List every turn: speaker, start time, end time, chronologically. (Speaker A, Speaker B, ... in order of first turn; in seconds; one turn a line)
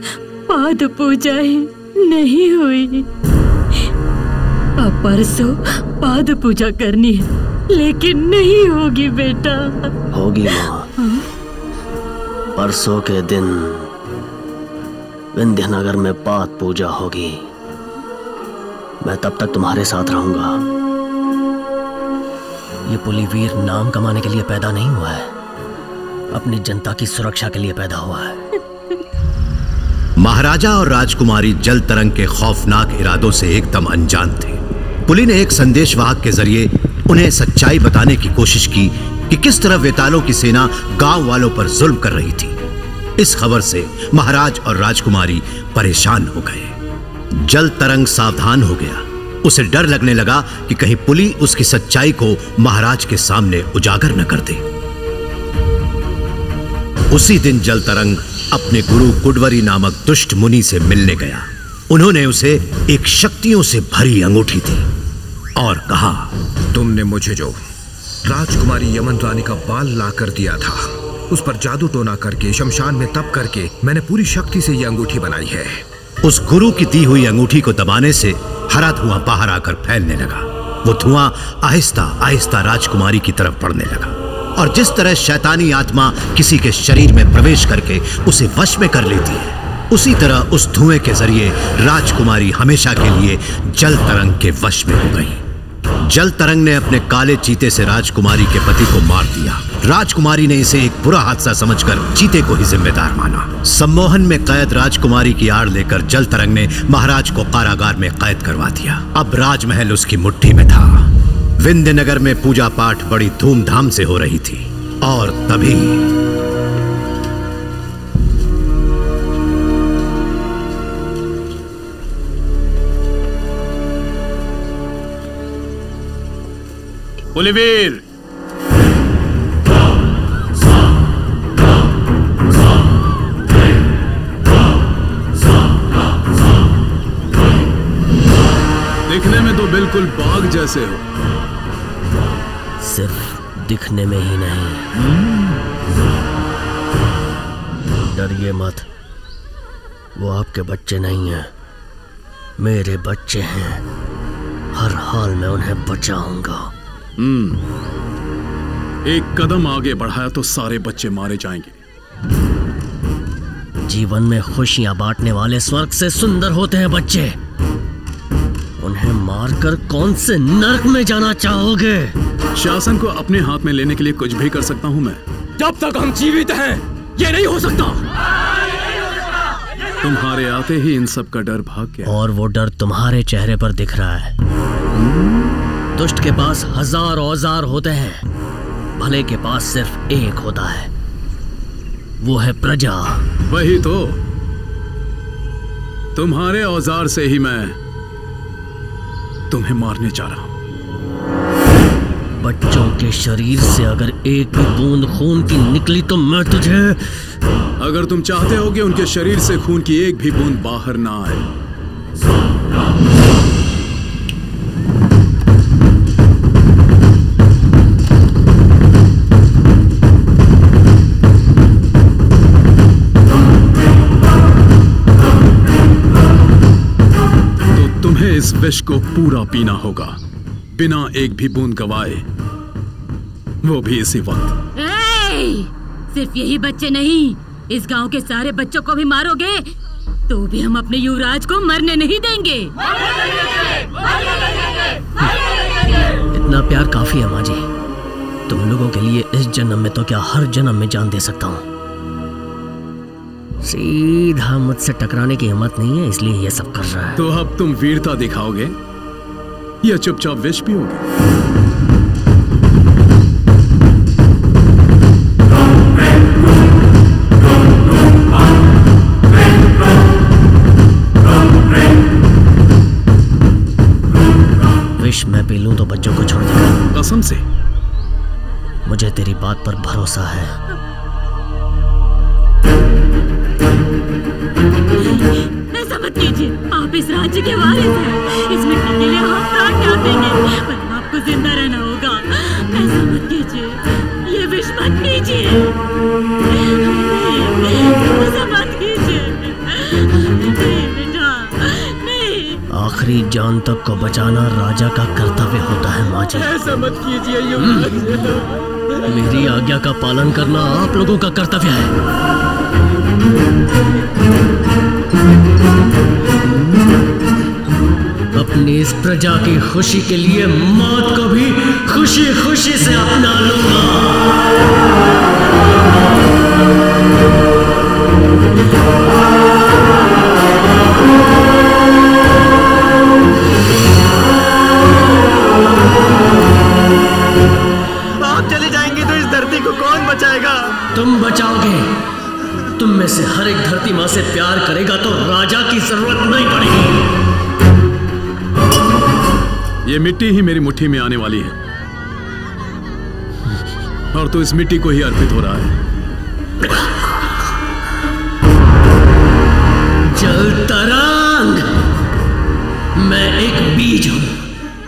Speaker A: 0.5-3.0
Speaker A: 4.8-9.9
Speaker B: 10.1-10.9
Speaker B: 12.6-13.9
Speaker B: 15.3-17.4
Speaker B: 19.0-20.6
Speaker B: 22.9-25.3
Speaker B: 26.3-28.4
Speaker C: 30.2-42.6
Speaker C: 43.2-46.8
Speaker C: 47.3-54.6
Speaker C: 57.1-64.9
Speaker C: 65.5-66.3
Speaker D: 66.7-67.6
Speaker D: 68.2-75.8
Speaker C: 76.2-95.4
Speaker C: 96.0-116.0
Speaker E: 127.3-128.0
Speaker E: 139.1-141.0
Speaker B: 142.8-144.9
Speaker B: 148.1-148.8
Speaker B: 150.2-151.5
Speaker B: 152.6-153.8
Speaker B: 154.7-156.7
Speaker E: 157.2-157.6
Speaker E: 159.1-161.8
Speaker B: 163.8-167.4
Speaker B: 168.8-172.2
Speaker E: 172.5-175.2
Speaker F: 175.6-176.7
Speaker F: 177.2-177.9
Speaker E: 180.0-182.2
Speaker B: 182.0-184.3
Speaker B: 185.9-188.2
Speaker B: 189.0-190.9
Speaker B: 192.2-193.2
Speaker E: 193.4-194.2
Speaker E: 196.2-197.8
Speaker E: 199.5-200.5
Speaker B: 202.4-207.2
Speaker E: 207.8-211.5
Speaker E: 227.7-230.2
Speaker E: 230.7-232.2
Speaker E: 233.6-234.6
Speaker A: 234.8-239.7
Speaker A: 240.3-242.7
Speaker B: 246.3-247.7
Speaker B: 248.5-251.6
Speaker B: 253.6-257.2
Speaker E: 257.2-258.8
Speaker E: 259.8-261.0
Speaker B: 275.0-276.8
Speaker E: 276.9-277.4
Speaker B: 278.9-280.6
Speaker A: 285.0-295.7
Speaker A: 296.5-302.6
Speaker B: 302.7-306.6
Speaker F: 306.6-307.8
Speaker B: 307.6-308.0
Speaker B: 309.1-311.9
Speaker B: 318.3-324.4
Speaker D: 338.5-339.9
Speaker B: 340.9-341.9
Speaker B: 342.8-347.0
Speaker E: 349.9-351.5
Speaker E: 354.1-355.8
Speaker B: 360.1-361.8
Speaker B: 362.9-364.4